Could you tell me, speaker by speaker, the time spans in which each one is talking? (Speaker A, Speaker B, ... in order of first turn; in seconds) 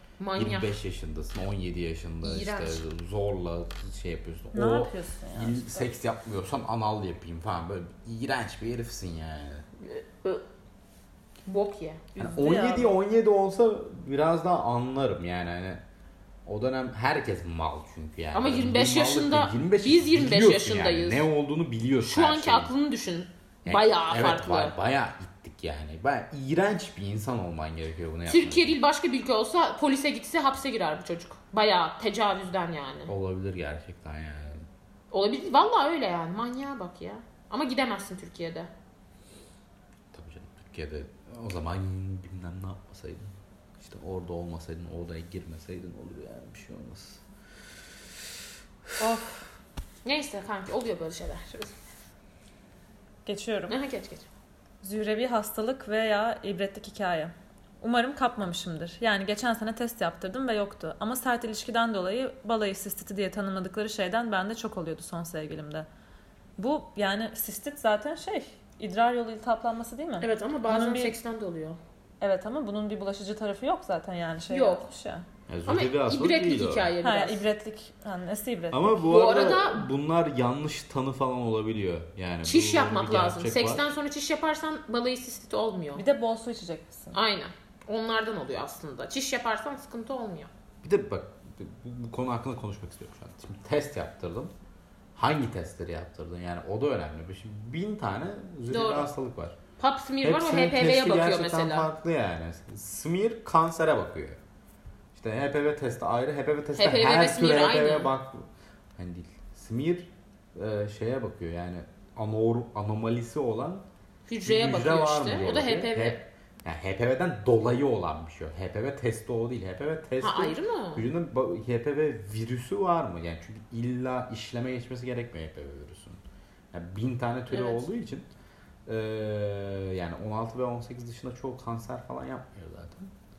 Speaker A: 0.2-0.7, 2.2-2.8, 9.8-10.4, 11.4-12.2, 18.3-21.2, 22.0-24.7, 28.3-33.1, 35.1-38.7, 50.0-51.7, 53.7-54.2, 70.2-71.8, 74.5-74.9, 75.7-77.4, 79.0-79.8, 82.5-86.0, 87.1-90.5, 98.7-99.1, 99.8-101.9, 106.7-108.1, 114.3-116.2, 120.2-121.1, 127.5-127.8
Speaker B: 0.3-9.6, 12.2-15.8, 16.4-22.7, 23.6-28.8, 33.1-34.6, 40.1-47.2, 75.5-76.9, 78.7-83.8, 90.8-94.5, 95.2-99.5, 100.2-104.4, 105.1-113.8, 114.4-126.2, 126.7-128.3, 128.8-133.1
Speaker C: 4.5-5.9, 12.2-12.9, 49.0-49.4, 53.2-53.8, 54.8-65.9, 66.6-71.2, 72.2-75.2, 77.0-79.1, 86.0-87.2